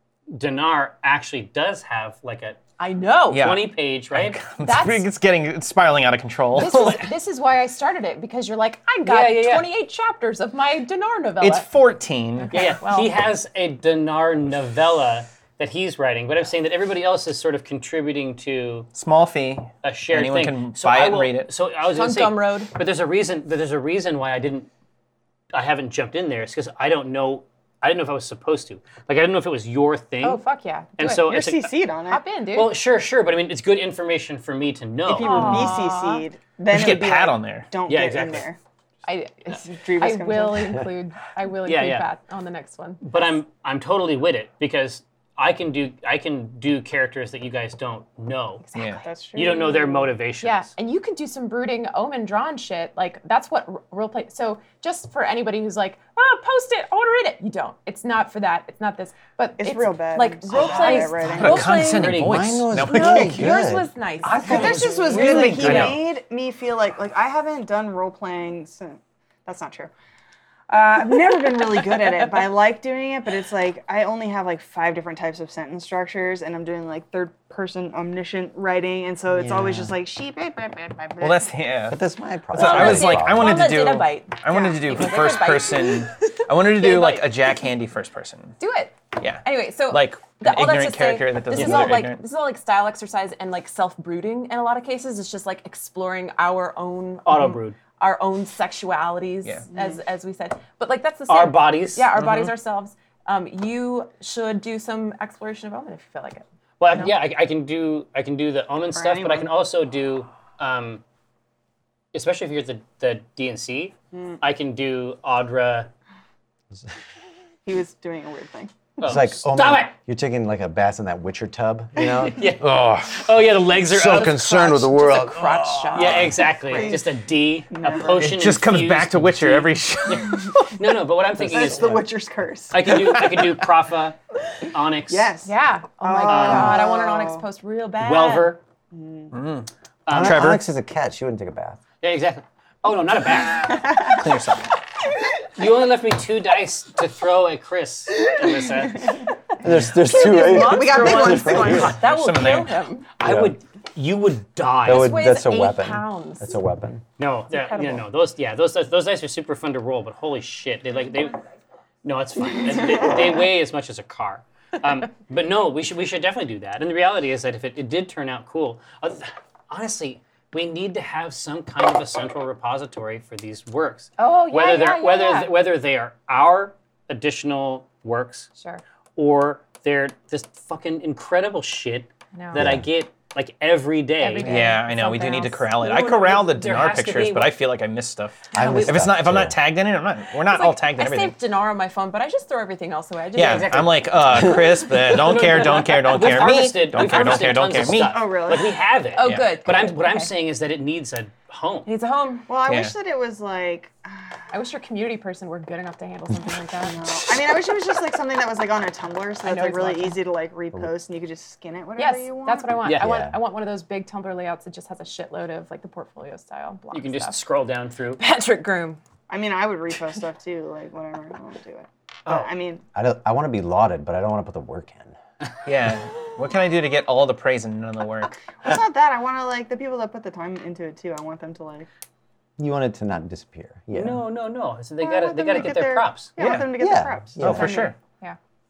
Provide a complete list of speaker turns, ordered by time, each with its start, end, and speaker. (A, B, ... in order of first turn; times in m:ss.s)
0:00.3-0:02.6 A
0:02.8-0:03.5 B
0:03.3-0:07.1 C
0:03.3-0:04.4 A
0:04.6-0:05.1 B
0:06.6-0:11.7 B
0:09.0-0:09.7 A
0:11.4-0:12.7 C
0:12.4-0:13.1 B
0:12.5-0:18.9 A
0:19.0-0:21.5 C
0:19.8-0:24.7 A
0:21.8-0:22.7 B
0:25.5-0:30.4 A
0:30.2-0:31.3 B
0:31.0-0:31.7 A
0:31.3-0:32.2 D
0:32.1-0:32.8 B
0:32.5-0:35.7 A
0:35.1-0:38.6 D
0:35.2-0:36.2 B
0:36.7-0:37.7 C
0:37.9-0:38.5 A
0:39.1-0:43.0 B
0:39.7-0:40.8 D
0:41.6-0:42.1 A
0:43.0-0:48.6 A
0:48.6-1:02.2 B
0:48.8-0:49.0 C
0:49.0-0:50.0 D
0:49.4-0:50.7 A
0:59.6-1:01.7 D
1:00.5-1:02.4 A
1:01.3-1:03.5 C
1:02.2-1:03.9 E
1:02.8-1:05.9 B
1:04.2-1:06.0 C
1:04.2-1:06.0 A
1:04.4-1:09.9 D
1:10.7-1:21.5 D
1:19.3-1:20.0 E
1:21.2-1:22.0 C
1:21.9-1:23.6 E
1:22.5-1:27.3 B
1:22.5-1:28.6 C
1:28.6-1:47.1 B
1:29.2-1:32.2 C
1:31.5-1:32.0 A
1:37.3-1:37.8 A
1:39.7-1:40.0 D
1:41.3-1:42.1 A
1:42.2-1:42.5 C
1:46.8-1:51.0 A
1:48.9-1:49.5 D
1:52.1-1:55.9 A
1:54.1-1:54.4 D
1:57.6-1:58.8 D
1:59.0-2:00.0 A
1:59.0-2:06.4 E
2:02.2-2:04.8 A
2:04.0-2:06.9 B
2:05.9-2:12.0 A
2:06.7-2:07.1 D
2:07.7-2:08.4 D
2:08.2-2:10.7 C
2:11.4-2:13.0 D
2:11.5-2:12.0 E
2:12.7-2:15.3 A
2:13.1-2:13.5 C
2:15.1-2:17.5 D
2:15.4-2:18.6 B
2:16.3-2:16.9 A
2:18.0-2:18.6 A
2:18.9-2:19.3 D
2:19.3-2:20.6 C
2:20.1-2:20.5 A
2:20.1-2:21.8 E
2:22.0-2:24.0 A
2:23.8-2:24.3 D
2:24.1-2:24.7 C
2:25.6-2:29.2 A
2:29.5-2:33.1 B
2:29.6-2:32.0 E
2:30.1-2:32.0 D
2:31.8-2:32.8 C
2:33.2-2:35.2 A
2:33.2-2:33.6 E
2:34.8-2:37.0 E
2:34.9-2:36.5 B
2:37.2-2:41.4 A
2:37.5-2:38.0 B
2:42.0-2:58.5 A
2:54.2-2:55.5 B
2:59.2-3:04.7 A
3:02.3-3:02.8 B
3:02.6-3:02.9 E
3:04.2-3:05.7 B
3:04.4-3:11.4 C
3:05.8-3:07.5 A
3:08.5-3:09.0 B
3:08.6-3:09.6 E
3:10.5-3:13.9 B
3:13.4-3:18.2 C
3:13.4-3:21.9 A
3:17.9-3:18.8 D
3:19.1-3:20.3 B
3:19.2-3:19.6 C
3:21.9-3:22.5 B
3:22.5-3:24.5 D
3:22.7-3:23.0 C
3:24.5-3:27.0 B
3:26.8-3:32.7 D
3:29.4-3:30.2 B
3:32.0-3:37.4 B
3:32.8-3:33.1 A
3:33.0-3:33.4 E
3:36.9-3:38.2 A
3:38.2-3:39.0 B
3:39.3-3:42.8 D
3:43.0-3:45.2 E
3:45.6-3:48.4 C
3:48.6-3:51.9 D
3:52.6-3:54.2 E
3:53.9-3:56.3 A
3:55.0-3:57.9 D
3:56.4-3:56.8 C
3:56.5-3:57.9 E
3:57.4-3:58.0 C
3:57.5-3:58.4 B